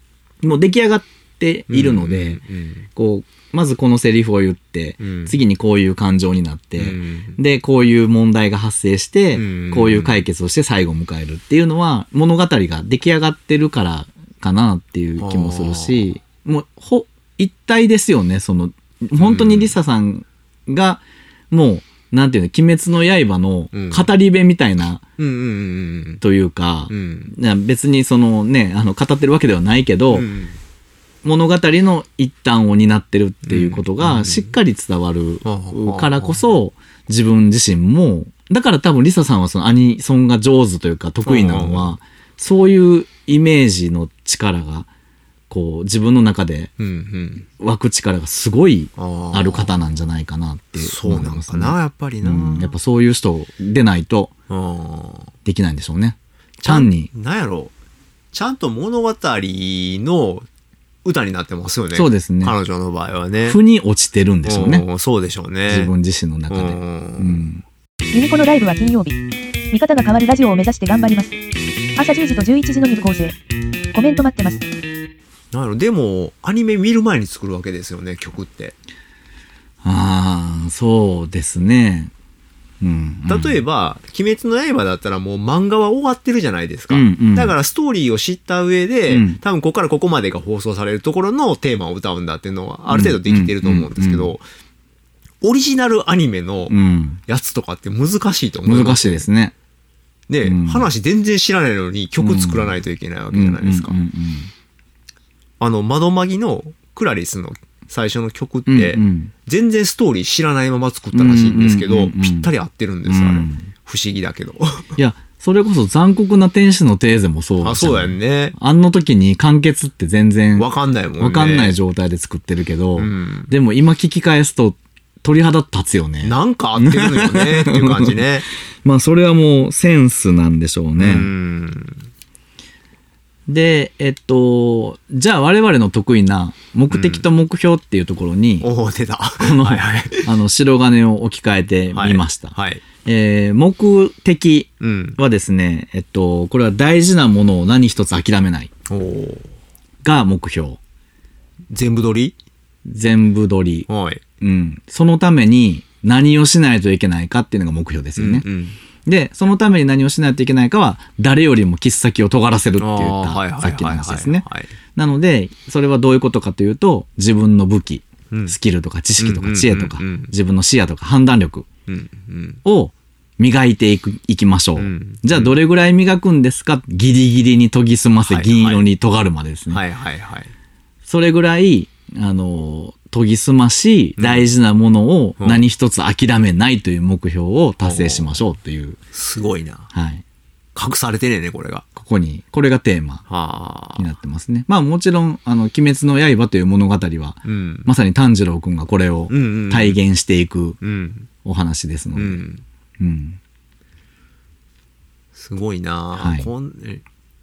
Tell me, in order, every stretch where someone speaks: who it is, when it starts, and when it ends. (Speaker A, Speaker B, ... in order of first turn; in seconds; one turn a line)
Speaker A: 0.4-2.4
Speaker B: 1.7-2.9
Speaker A: 2.9-25.0
Speaker B: 5.0-5.4
Speaker B: 6.8-7.4
Speaker B: 9.3-10.2
Speaker B: 15.2-16.0
Speaker B: 19.2-19.8
Speaker B: 23.7-24.1
Speaker B: 25.2-26.2
Speaker A: 26.2-30.2
Speaker B: 26.9-27.3
Speaker B: 30.1-30.6
Speaker A: 31.2-44.9
Speaker B: 33.4-34.5
Speaker B: 35.4-36.4
Speaker B: 41.2-41.9
Speaker A: 45.5-46.7
Speaker B: 46.8-47.5
Speaker A: 47.6-54.3
Speaker B: 49.0-49.7
Speaker B: 50.8-52.8
Speaker B: 54.5-55.3
Speaker A: 55.4-57.1
Speaker B: 56.6-57.7
Speaker B: 58.3-60.5
Speaker B: 61.0-63.6
Speaker A: 61.9-62.5
Speaker A: 63.4-64.8
Speaker B: 64.4-65.9
Speaker A: 65.7-67.6
Speaker B: 66.5-67.5
Speaker C: 68.1-69.2
Speaker C: 69.7-71.4
Speaker C: 71.9-73.3
Speaker C: 73.9-74.6
Speaker B: 75.5-78.7
Speaker A: 79.8-82.1
Speaker A: 82.8-83.6
Speaker B: 83.3-94.4
Speaker A: 86.9-87.5
Speaker A: 89.1-89.4
Speaker A: 92.9-94.3
Speaker B: 95.4-96.7
Speaker A: 96.7-97.2
Speaker B: 97.3-99.2
Speaker A: 98.6-99.5
Speaker B: 100.3-104.0
Speaker A: 100.4-100.9
Speaker A: 102.2-102.8
Speaker A: 103.3-104.5
Speaker B: 105.6-114.9
Speaker A: 108.7-109.3
Speaker A: 111.1-112.5
Speaker A: 113.0-113.7
Speaker A: 115.0-128.2
Speaker B: 117.6-118.5
Speaker B: 120.5-121.8
Speaker B: 123.0-123.5
Speaker B: 126.2-128.5
Speaker A: 128.8-131.3
Speaker B: 131.0-132.1
Speaker A: 133.5-138.7
Speaker B: 136.9-137.2
Speaker B: 138.6-140.3
Speaker A: 139.4-148.7
Speaker B: 141.9-142.8
Speaker B: 144.8-145.2
Speaker B: 148.9-149.5
Speaker A: 150.0-150.8
Speaker B: 151.7-152.3
Speaker A: 152.9-153.9
Speaker B: 153.9-154.2
Speaker A: 154.4-158.4
Speaker B: 158.2-158.8
Speaker A: 159.1-171.7
Speaker B: 162.8-164.7
Speaker B: 168.3-168.6
Speaker B: 169.2-170.3
Speaker B: 171.9-172.6
Speaker A: 172.6-179.8
Speaker B: 174.8-175.6
Speaker B: 178.2-178.8
Speaker B: 179.7-180.5
Speaker A: 181.0-189.0
Speaker B: 184.2-184.5
Speaker B: 187.8-188.4
Speaker B: 189.1-189.9
Speaker A: 189.9-190.2
Speaker B: 190.7-191.9
Speaker A: 191.9-193.2
Speaker B: 193.3-194.1
Speaker A: 193.9-200.8
Speaker B: 197.4-197.9
Speaker B: 199.3-200.0
Speaker B: 200.8-201.3
Speaker A: 201.4-202.4
Speaker B: 202.1-202.6
Speaker A: 203.0-203.4
Speaker B: 205.3-207.0
Speaker A: 206.1-206.5